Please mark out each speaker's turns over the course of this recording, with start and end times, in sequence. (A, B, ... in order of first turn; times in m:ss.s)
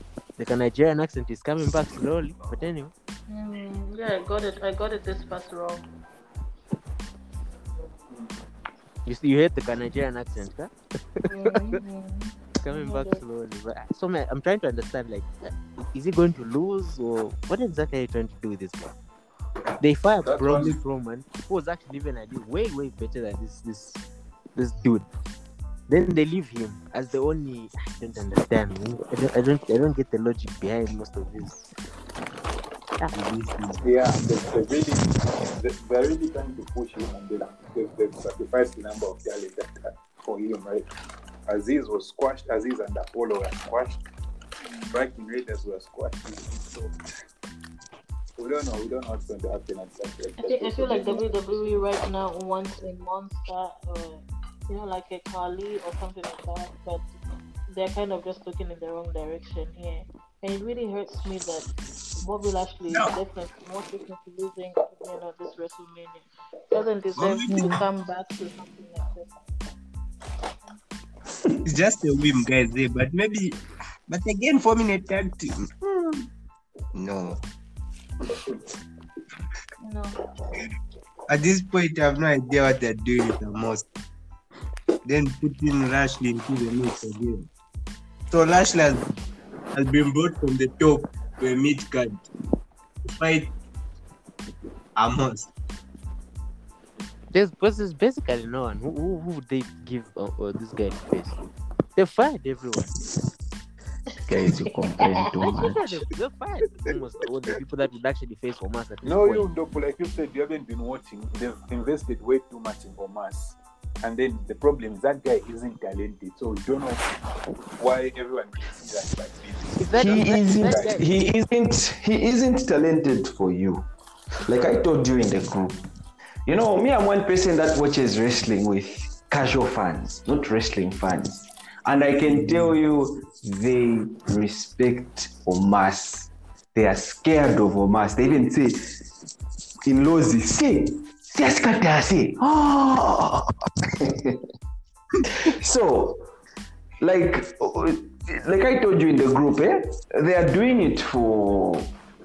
0:00.4-0:02.9 A
0:03.3-0:05.8 B
0:08.1-0:08.4 C
0:09.1-0:11.8 A
0:11.3-0:13.2 B
0:12.5-0:18.9 A
0:19.8-0:24.0 A
0:20.2-0:20.8 C
0:24.6-0:25.1 A
0:25.9-0:31.7 A
0:33.1-0:33.8 D
0:33.8-0:40.9 C
0:41.5-0:44.0 C
0:44.7-0:45.0 B
0:44.9-0:46.9 C
0:48.4-0:51.2 C
0:50.4-0:57.1 B
0:57.7-1:01.7 B
1:02.2-1:09.3 B
1:07.2-1:07.8 D
1:11.6-1:13.6 D
1:14.1-1:16.3 D
1:17.0-1:17.4 D
1:19.8-1:20.2 B
1:21.3-1:23.8 D
1:25.0-1:27.5 D
1:28.3-1:29.1 D
1:29.7-1:32.3 D
1:33.1-1:33.5 D
1:35.0-1:35.5 D
1:37.3-1:41.4 A
1:42.0-1:42.9 A
1:44.3-1:46.0 E
1:44.7-1:45.0 B
1:45.6-1:49.5 A
1:49.0-1:57.1 C
1:57.8-2:01.0 C
1:59.8-2:01.1 A
2:00.0-2:03.9 E
2:04.4-2:05.8 E
2:06.5-2:18.9 E
2:12.4-2:12.7 D
2:19.9-2:24.4 E
2:25.2-2:26.2 E
2:27.0-2:31.9 E